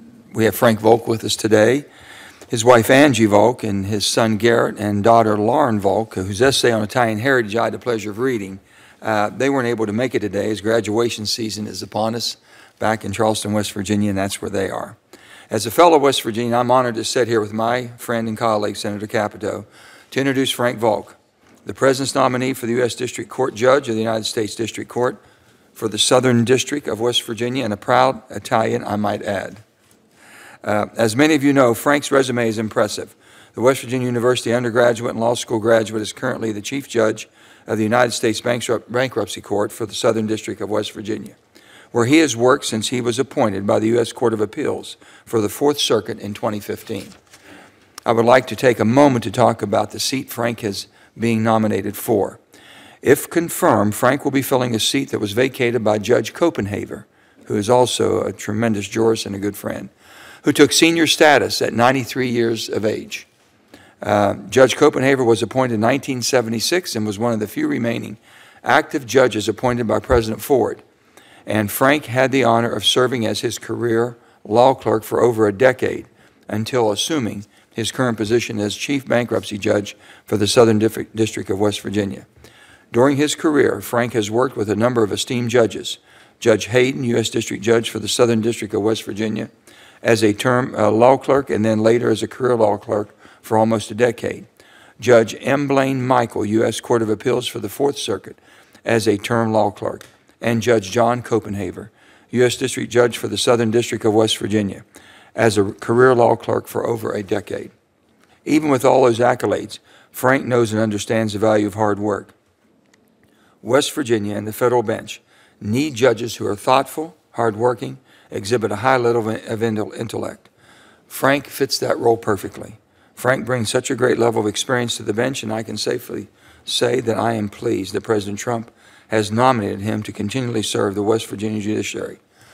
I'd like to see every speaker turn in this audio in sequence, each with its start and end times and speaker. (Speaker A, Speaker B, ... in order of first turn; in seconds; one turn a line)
Speaker A: 0.3-1.9
Speaker A: 2.5-15.0
Speaker A: 15.5-25.2
Speaker A: 25.8-29.6
Speaker A: 30.6-41.4
Speaker A: 41.9-47.1
Speaker A: 48.1-52.4
Speaker A: 53.0-59.9
Speaker A: 60.4-63.3
Speaker A: 64.0-70.8
Speaker A: 71.5-82.3
Speaker A: 82.9-89.5
Speaker A: 90.0-94.5
Speaker A: 95.0-104.8
Speaker A: 105.4-107.7
Speaker A: 108.5-112.3
Speaker A: 113.6-120.5
Speaker A: 121.1-132.2